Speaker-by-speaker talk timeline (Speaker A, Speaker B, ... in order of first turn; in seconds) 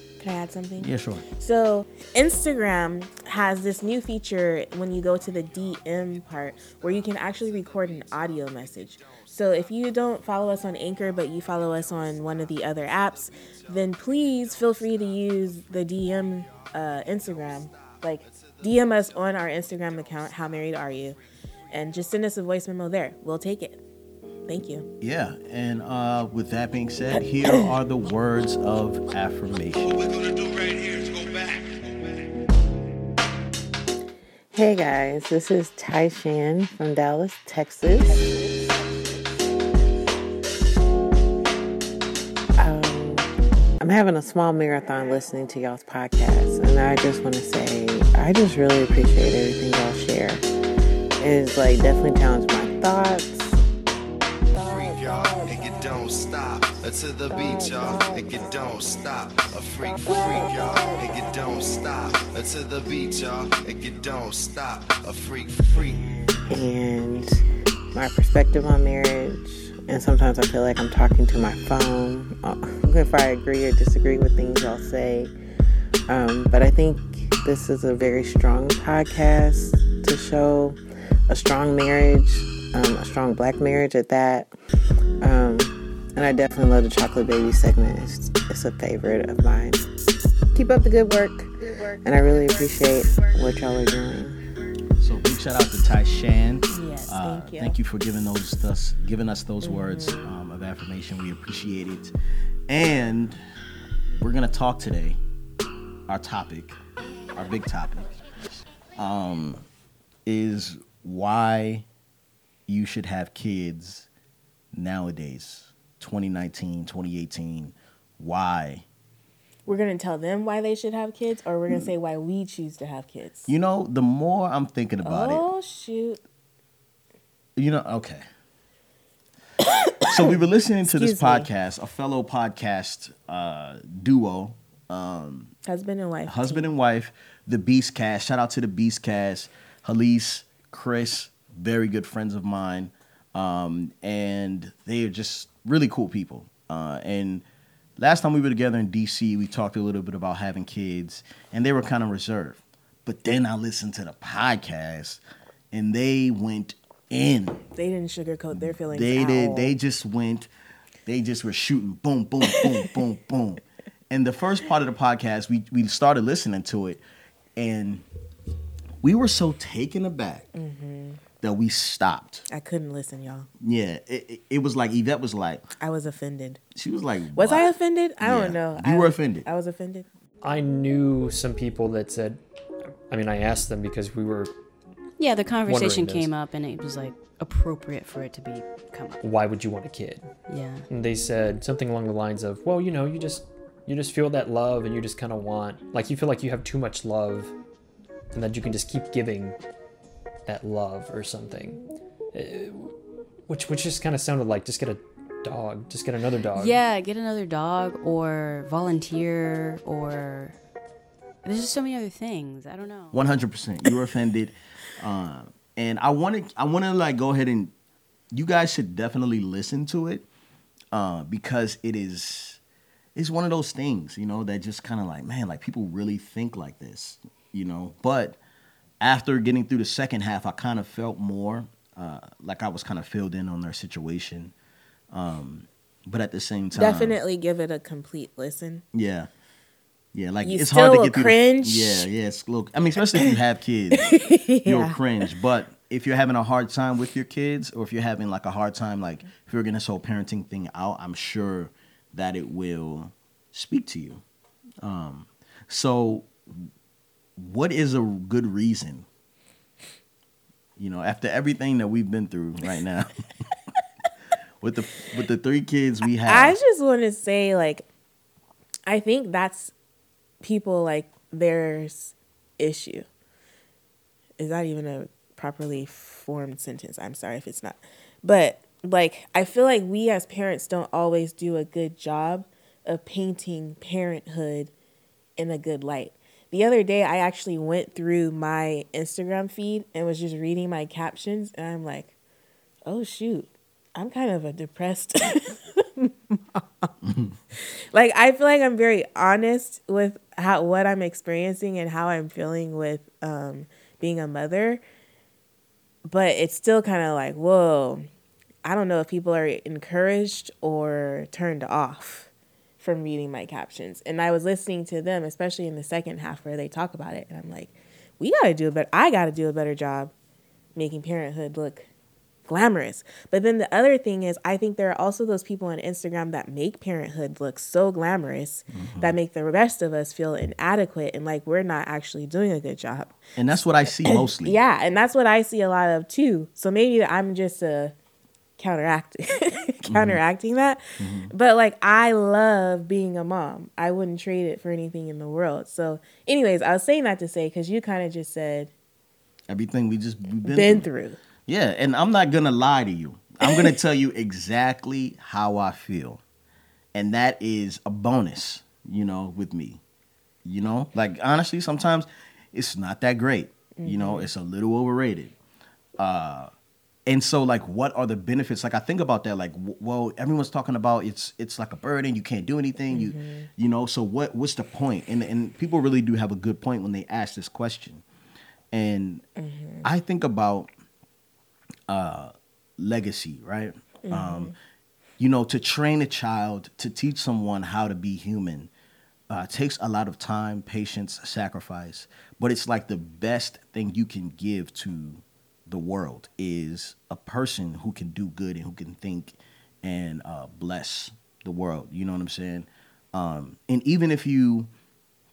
Speaker A: 0.2-21.2, 21.7-23.8, 24.5-24.9, 96.7-97.8, 99.6-100.2, 119.7-123.5, 125.0-126.2, 129.9-130.2, 130.9-131.5, 135.6-136.7, 157.7-159.7, 170.5-171.2, 172.5-173.5, 175.8-176.6, 177.3-180.1, 236.7-238.8, 240.4-242.1, 243.9-245.0, 266.2-267.9, 268.9-269.7, 270.4-273.1, 274.4-284.7, 285.4-292.1, 292.9-296.9, 297.5-304.8, 306.0-308.1, 308.6-320.1, 320.7-321.9, 322.5-337.9, 338.6-348.7, 350.4-351.2, 363.8-364.3, 372.9-373.5, 379.4-379.9, 384.0-384.5
Speaker B: 0.8-1.2, 25.0-30.0, 95.0-102.1, 102.7-103.4, 104.1-105.2, 106.1-106.8, 107.3-109.7, 110.2-111.8, 112.7-114.1, 114.7-118.8, 123.5-125.5, 127.5-128.2, 130.0-135.5, 136.3-147.4, 148.0-157.6, 158.5-160.5, 161.1-167.0, 167.6-168.0, 169.0-170.4, 171.4-172.5, 173.6-175.7, 176.7-179.5, 213.1-217.7, 218.3-220.2, 220.9-222.6, 223.1-228.4, 229.0-234.5, 235.1-237.2, 238.9-239.3, 240.1-254.2, 254.8-256.7, 257.4-259.1, 260.8-263.1, 264.6-266.6, 328.7-329.2, 333.4-334.6, 339.9-340.2, 341.0-341.3, 349.5-350.9, 351.4-356.2, 356.9-359.8, 360.4-365.3, 366.0-366.5, 367.1-378.0, 378.7-379.2, 379.8-380.7, 381.9-384.5, 385.2-388.7, 389.3-404.7
Speaker C: 5.5-5.9, 6.6-9.6, 11.7-12.5, 13.1-21.2, 29.8-31.8, 54.5-66.1
Speaker D: 34.5-38.6, 42.6-43.3, 43.8-50.4, 51.2-53.6, 66.5-75.3, 76.1-84.5, 85.2-89.9, 90.5-94.3
Speaker E: 180.4-182.4, 183.1-184.5, 185.7-186.3, 189.2-190.3, 190.9-197.5, 198.3-199.6, 200.4-201.8, 202.3-202.9, 203.5-206.8
Speaker F: 185.2-189.2, 190.5-190.8, 206.5-210.6, 211.4-213.2